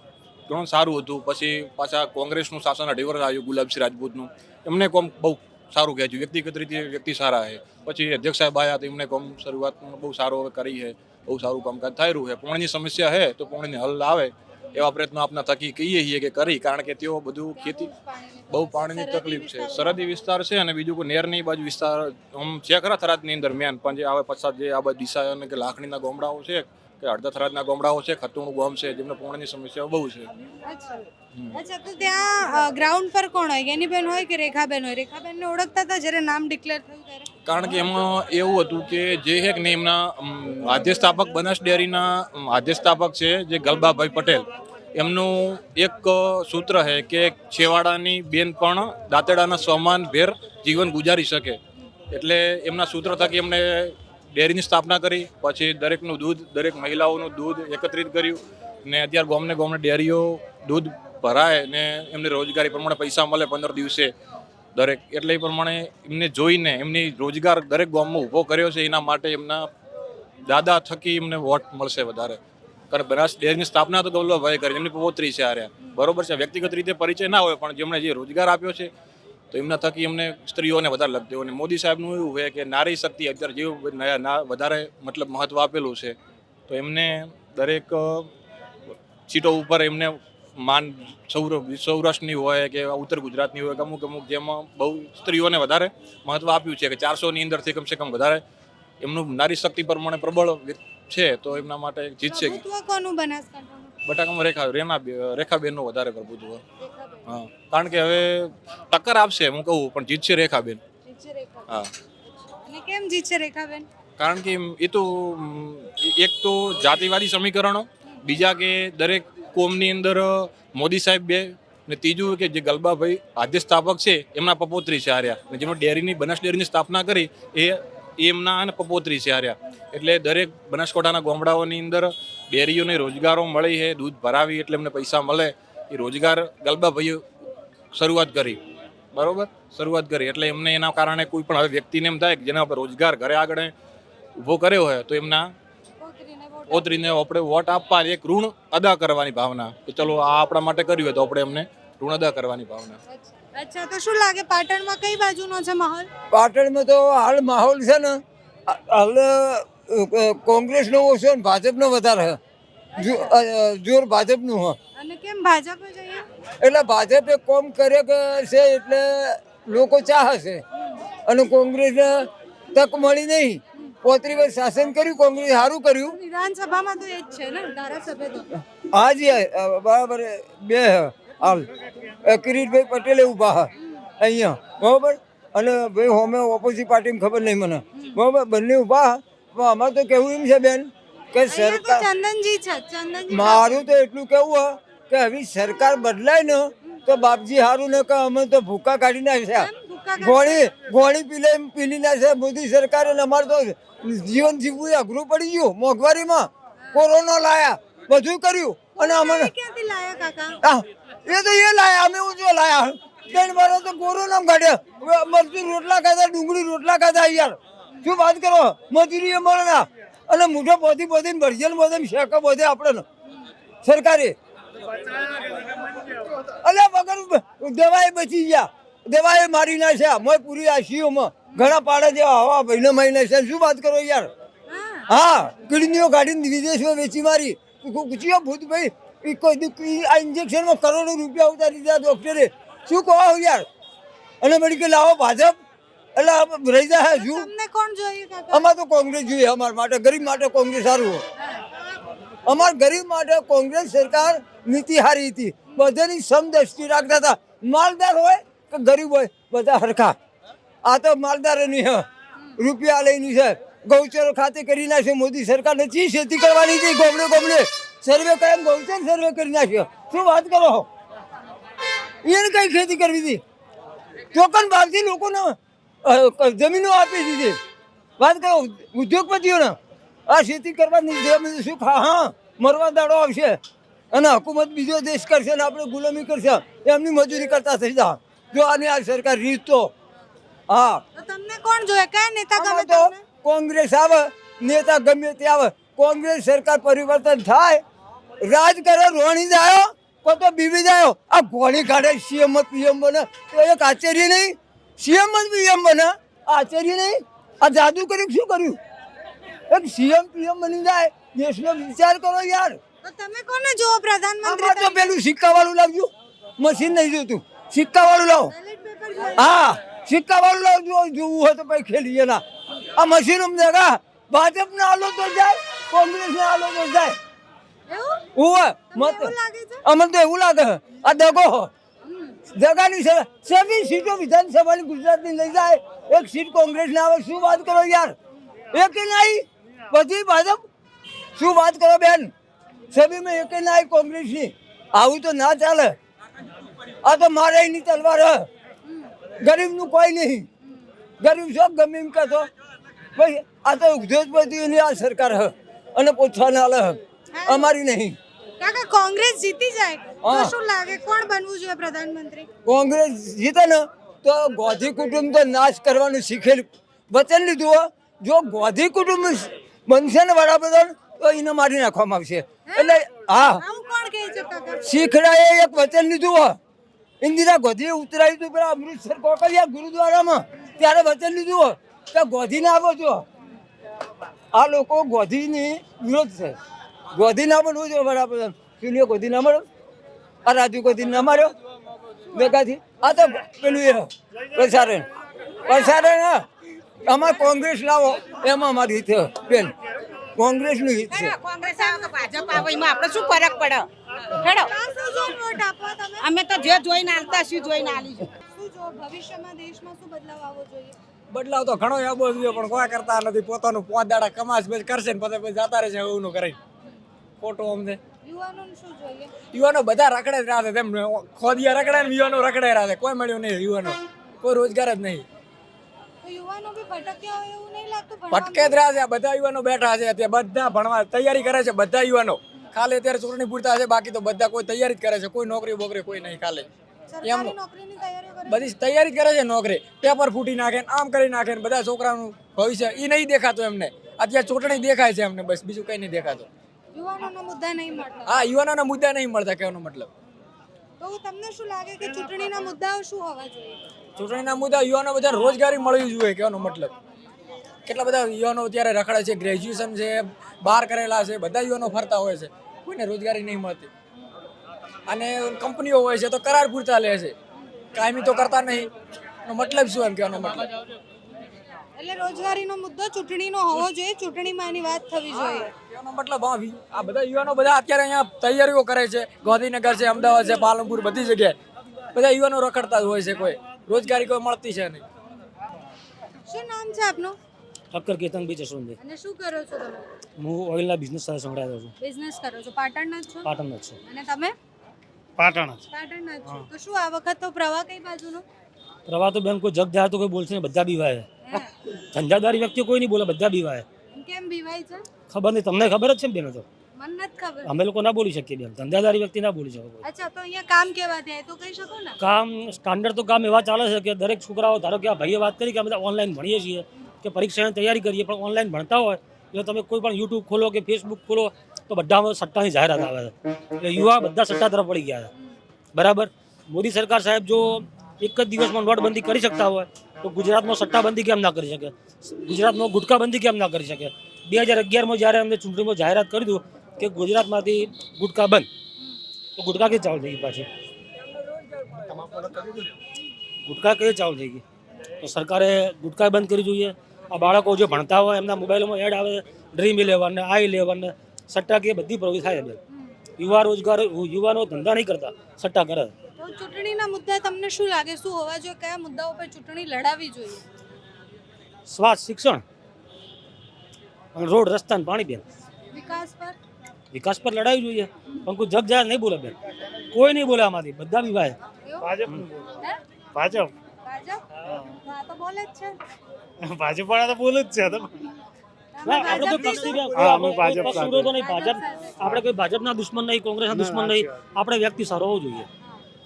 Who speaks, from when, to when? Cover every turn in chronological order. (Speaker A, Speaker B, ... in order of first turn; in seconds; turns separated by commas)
Speaker A: 0.5-17.9, Speaker B: 17.6-20.2, Speaker A: 18.5-30.3, Speaker B: 30.7-31.0, Speaker B: 31.5-37.3, Speaker A: 37.5-51.6, Speaker A: 52.1-64.1, Speaker A: 64.8-69.7, Speaker A: 70.5-72.4, Speaker A: 72.9-78.9, Speaker A: 79.5-86.2, Speaker A: 86.7-88.3, Speaker A: 89.3-98.4, Speaker A: 99.0-102.6, Speaker B: 102.3-104.0, Speaker A: 104.0-106.6, Speaker B: 106.8-107.4, Speaker A: 107.3-110.8, Speaker B: 111.0-111.7, Speaker B: 112.7-113.9, Speaker A: 114.2-137.2, Speaker A: 137.9-138.6, Speaker A: 139.1-143.7, Speaker A: 144.4-145.5, Speaker B: 146.0-147.1, Speaker A: 146.7-153.0, Speaker B: 153.1-156.1, Speaker C: 156.3-162.4, Speaker B: 163.0-163.3, Speaker C: 163.0-164.8, Speaker B: 165.0-166.2, Speaker C: 166.6-170.6, Speaker B: 170.7-171.0, Speaker C: 171.3-176.2, Speaker B: 176.0-178.5, Speaker C: 178.9-181.7, Speaker C: 182.2-192.1, Speaker B: 191.5-193.8, Speaker C: 193.3-209.5, Speaker B: 199.6-200.6, Speaker B: 209.0-210.6, Speaker C: 210.6-223.0, Speaker C: 223.8-224.3, Speaker C: 226.6-234.3, Speaker B: 234.7-235.1, Speaker C: 235.1-243.7, Speaker C: 244.4-245.6, Speaker C: 246.2-247.5, Speaker B: 247.1-248.7, Speaker C: 248.5-251.2, Speaker B: 251.4-251.7, Speaker C: 252.5-260.2, Speaker C: 260.9-262.1, Speaker C: 262.6-270.9, Speaker C: 272.2-273.4, Speaker C: 274.3-277.6, Speaker C: 278.2-279.8, Speaker C: 280.3-283.6, Speaker C: 284.1-289.9, Speaker C: 290.7-291.0, Speaker B: 291.2-293.2, Speaker C: 292.6-297.8, Speaker C: 298.4-308.8, Speaker C: 309.7-312.8, Speaker B: 313.0-315.1, Speaker C: 314.4-318.5, Speaker B: 318.5-319.6, Speaker C: 319.4-322.4, Speaker C: 322.9-327.2, Speaker B: 327.9-328.3, Speaker C: 328.4-331.7, Speaker B: 328.9-329.8, Speaker B: 332.1-332.4, Speaker C: 332.5-338.1, Speaker C: 338.7-340.6, Speaker C: 341.4-342.3, Speaker C: 342.9-346.0, Speaker C: 347.0-348.5, Speaker C: 349.4-350.5, Speaker C: 351.2-352.5, Speaker C: 353.2-358.2, Speaker B: 357.3-357.7, Speaker B: 358.6-362.5, Speaker C: 360.2-360.5, Speaker C: 362.6-373.6, Speaker B: 372.7-374.9, Speaker C: 374.8-376.6, Speaker C: 377.2-383.2, Speaker C: 384.5-386.6, Speaker C: 387.1-389.6, Speaker C: 390.4-391.5, Speaker C: 392.3-395.1, Speaker C: 395.6-396.4, Speaker C: 397.0-399.7, Speaker C: 400.4-401.4, Speaker D: 401.1-403.9, Speaker D: 404.4-404.7, Speaker B: 404.7-407.7, Speaker D: 406.2-408.3, Speaker B: 408.5-410.9, Speaker E: 411.3-416.6, Speaker E: 417.4-418.0, Speaker B: 418.2-419.3, Speaker E: 419.5-425.2, Speaker B: 426.2-428.8, Speaker E: 428.3-436.7, Speaker B: 437.1-438.8, Speaker E: 437.2-437.6, Speaker E: 438.5-446.5, Speaker B: 446.9-448.3, Speaker E: 448.3-450.1, Speaker B: 451.0-453.8, Speaker E: 454.2-456.9, Speaker E: 457.9-463.9, Speaker E: 465.1-467.3, Speaker E: 467.9-468.9, Speaker E: 469.5-470.7, Speaker B: 472.0-475.7, Speaker E: 475.7-481.6, Speaker E: 482.1-485.0, Speaker B: 486.5-487.4, Speaker F: 487.9-489.0, Speaker B: 489.0-490.1, Speaker F: 490.4-491.9, Speaker B: 492.0-493.5, Speaker F: 493.4-494.0, Speaker B: 494.1-494.6, Speaker G: 495.4-495.8, Speaker B: 495.9-498.4, Speaker F: 499.1-501.3, Speaker B: 501.4-501.7, Speaker F: 502.1-503.9, Speaker B: 504.1-505.1, Speaker F: 505.3-506.7, Speaker B: 507.0-507.7, Speaker F: 507.6-510.0, Speaker B: 510.0-512.2, Speaker F: 512.2-525.3, Speaker F: 525.9-538.7, Speaker F: 539.6-540.7, Speaker F: 543.7-544.6, Speaker F: 545.2-552.8, Speaker F: 553.4-556.1, Speaker B: 556.4-560.6, Speaker F: 561.9-562.6, Speaker F: 564.4-565.4, Speaker B: 565.9-566.6, Speaker F: 567.1-569.5, Speaker F: 570.1-571.6, Speaker B: 571.9-572.1, Speaker G: 572.0-572.7, Speaker G: 573.4-573.7, Speaker B: 574.0-574.4, Speaker B: 575.0-576.0, Speaker G: 576.6-578.1, Speaker B: 579.0-582.3, Speaker F: 579.0-585.7, Speaker G: 579.4-581.3, Speaker G: 583.7-584.4